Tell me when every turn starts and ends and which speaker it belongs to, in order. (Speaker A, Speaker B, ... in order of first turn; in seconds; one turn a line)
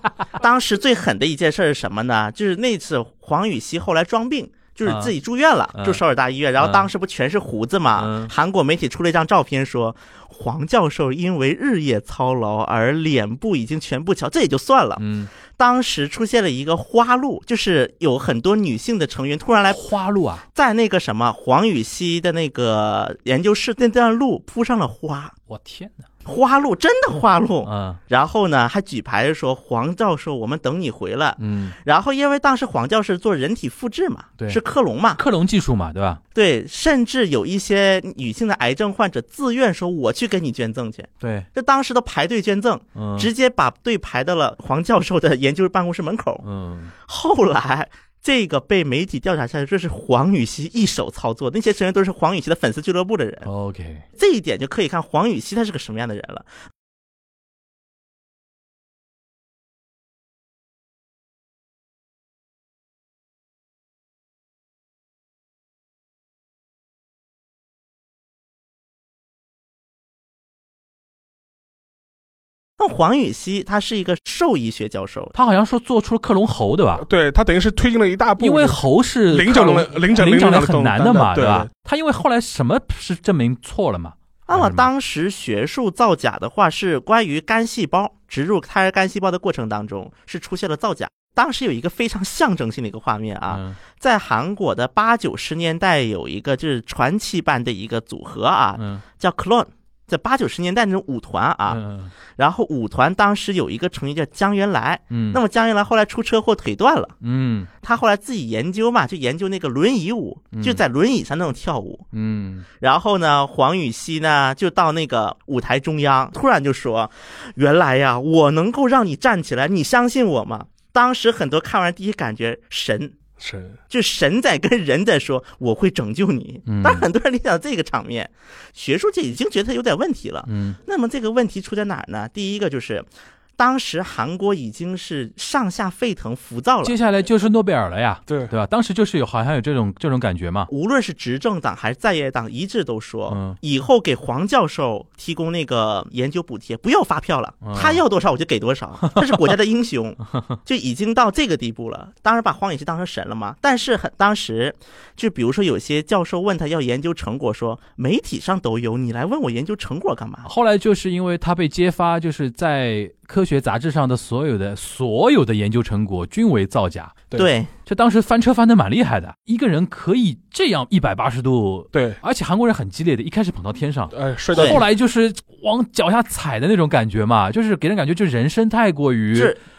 Speaker A: 0.4-15.0
Speaker B: 4.8-5.1
Speaker B: 5.7-6.0
Speaker B: 6.6-6.9
Speaker B: 8.0-8.3
Speaker B: 15.0-15.3
Speaker A: 15.5-19.8
Speaker B: 19.7-20.4
Speaker A: 20.5-25.3
Speaker B: 25.5-26.1
Speaker A: 26.2-35.2
Speaker B: 27.6-28.0
Speaker B: 31.4-31.8
Speaker B: 35.2-36.2
Speaker A: 36.3-46.4
Speaker B: 41.2-41.5
Speaker B: 43.0-43.3
Speaker B: 46.4-46.9
Speaker A: 47.0-53.5
Speaker B: 53.4-54.0
Speaker A: 54.2-56.5
Speaker A: 72.8-75.3
Speaker B: 75.3-77.0
Speaker C: 77.0-81.7
Speaker B: 78.4-84.9
Speaker A: 84.5-101.8
Speaker B: 93.5-93.8
Speaker B: 98.8-99.0
Speaker B: 101.7-102.1
Speaker A: 102.3-107.1
Speaker B: 105.1-105.4
Speaker B: 107.2-107.7
Speaker A: 107.8-112.0
Speaker B: 110.5-110.8
Speaker B: 112.1-112.7
Speaker A: 112.8-123.2
Speaker C: 123.4-123.8
Speaker A: 123.9-136.9
Speaker B: 126.7-127.1
Speaker B: 130.5-130.8
Speaker B: 136.8-140.7
Speaker C: 138.3-138.5
Speaker A: 140.7-160.5
Speaker B: 143.3-143.6
Speaker B: 147.6-148.0
Speaker B: 149.0-149.4
Speaker B: 160.4-167.2
Speaker A: 167.3-167.7
Speaker B: 167.9-179.6
Speaker C: 171.9-172.2
Speaker C: 174.1-174.8
Speaker A: 174.5-174.8
Speaker A: 179.3-179.6